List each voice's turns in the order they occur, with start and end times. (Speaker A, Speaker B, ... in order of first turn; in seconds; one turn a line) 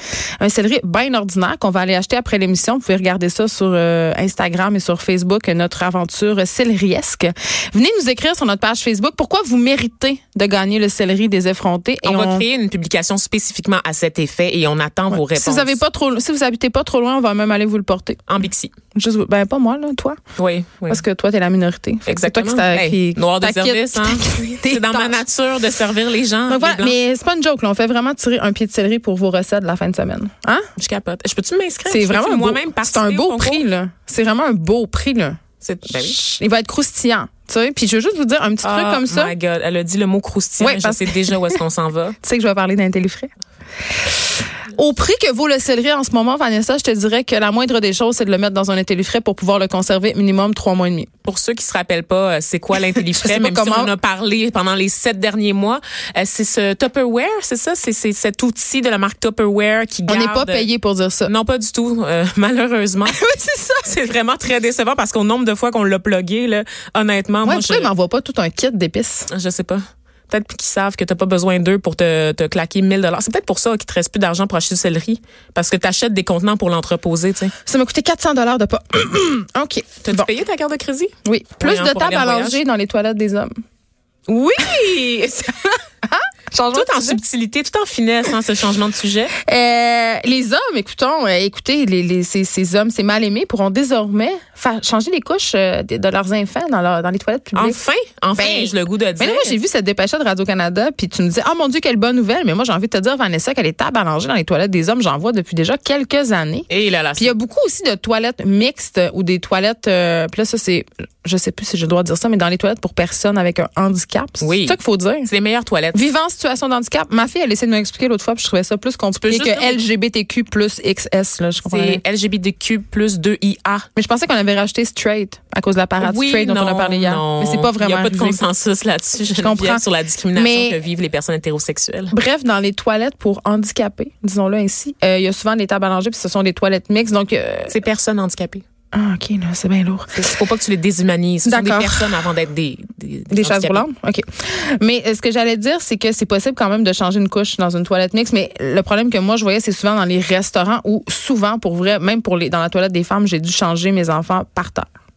Speaker A: 0.4-12.4
Speaker B: 12.1-15.8
Speaker A: 15.1-18.2
Speaker B: 18.3-18.7
Speaker A: 18.9-20.2
Speaker B: 20.4-21.0
Speaker A: 20.9-25.2
Speaker B: 22.1-26.9
Speaker A: 26.5-30.7
Speaker B: 30.8-33.6
Speaker A: 31.9-39.3
Speaker B: 35.6-36.2
Speaker B: 38.6-42.2
Speaker A: 40.6-41.6
Speaker A: 42.2-43.3
Speaker A: 44.0-51.1
Speaker B: 51.2-60.7
Speaker A: 53.0-53.9
Speaker A: 60.1-61.3
Speaker B: 61.2-63.2
Speaker A: 63.1-64.0
Speaker B: 63.9-67.9
Speaker A: 67.4-69.3
Speaker B: 69.3-77.5
Speaker A: 77.6-80.3
Speaker B: 80.0-82.6
Speaker A: 81.2-83.5
Speaker B: 84.3-85.7
Speaker A: 86.0-87.2
Speaker B: 86.7-89.3
Speaker A: 89.4-97.8
Speaker B: 97.5-99.5
Speaker A: 98.4-115.3
Speaker B: 106.7-107.3
Speaker B: 114.4-116.1
Speaker A: 115.9-122.0
Speaker B: 119.2-119.8
Speaker B: 121.7-123.9
Speaker A: 124.0-128.4
Speaker B: 126.0-132.1
Speaker A: 129.3-129.8
Speaker A: 130.3-130.8
Speaker A: 132.1-137.8
Speaker B: 137.7-138.6
Speaker A: 138.9-140.3
Speaker B: 140.2-143.8
Speaker A: 141.4-142.2
Speaker A: 143.3-154.9